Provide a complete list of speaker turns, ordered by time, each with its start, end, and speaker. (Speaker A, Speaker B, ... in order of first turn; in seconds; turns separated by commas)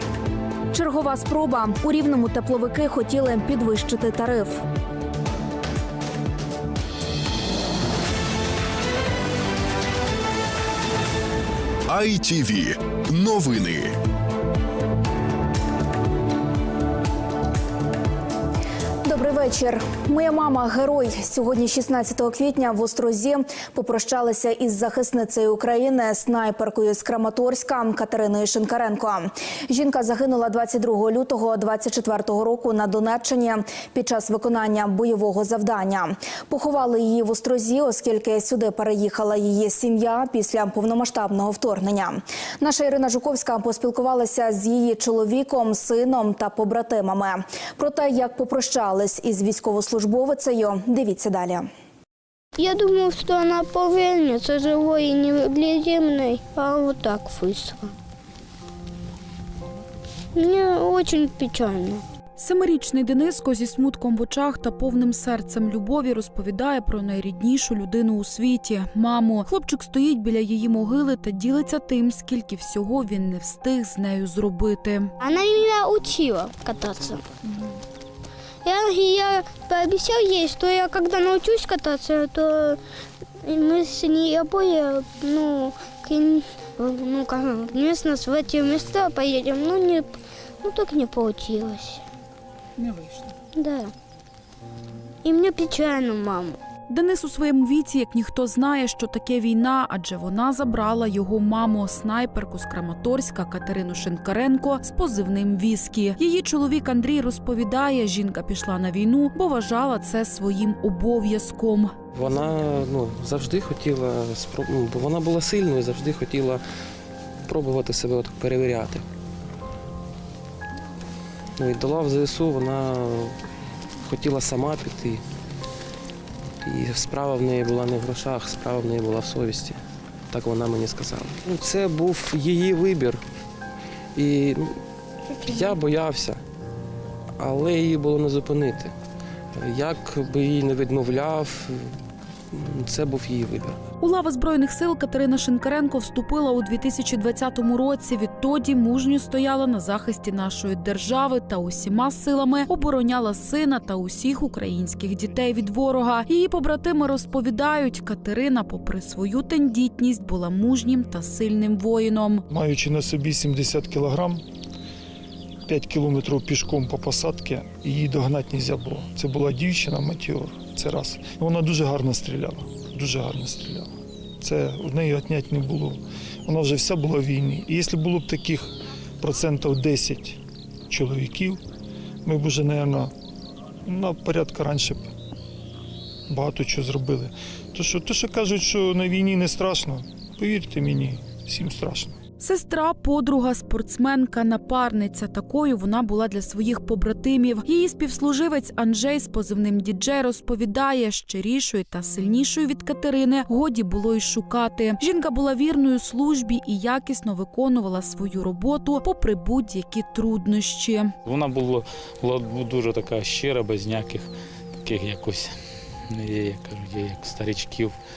Speaker A: 0.7-4.6, Speaker B: 11.9-13.9, Speaker A: 19.0-51.7, Speaker C: 52.6-57.9, Speaker C: 60.3-62.0, Speaker D: 62.4-75.1, Speaker C: 75.2-77.2, Speaker C: 78.6-82.8, Speaker C: 83.4-92.0, Speaker C: 93.5-93.9, Speaker C: 95.2-96.6, Speaker D: 96.9-111.9, Speaker E: 112.1-116.6, Speaker E: 117.5-119.0, Speaker E: 121.6-123.3, Speaker E: 124.0-125.2, Speaker E: 126.6-129.8, Speaker E: 130.3-133.2, Speaker E: 134.2-134.8, Speaker E: 135.4-136.4, Speaker E: 137.4-138.9, Speaker E: 139.6-141.9, Speaker E: 142.5-143.8, Speaker D: 144.0-162.4, Speaker F: 162.5-164.4, Speaker F: 165.7-173.9, Speaker F: 174.4-180.4, Speaker F: 180.9-181.6, Speaker F: 182.2-183.1, Speaker F: 183.9-185.0, Speaker F: 186.3-192.1, Speaker D: 192.4-211.1, Speaker G: 211.2-214.3, Speaker G: 214.8-215.6, Speaker G: 216.1-217.9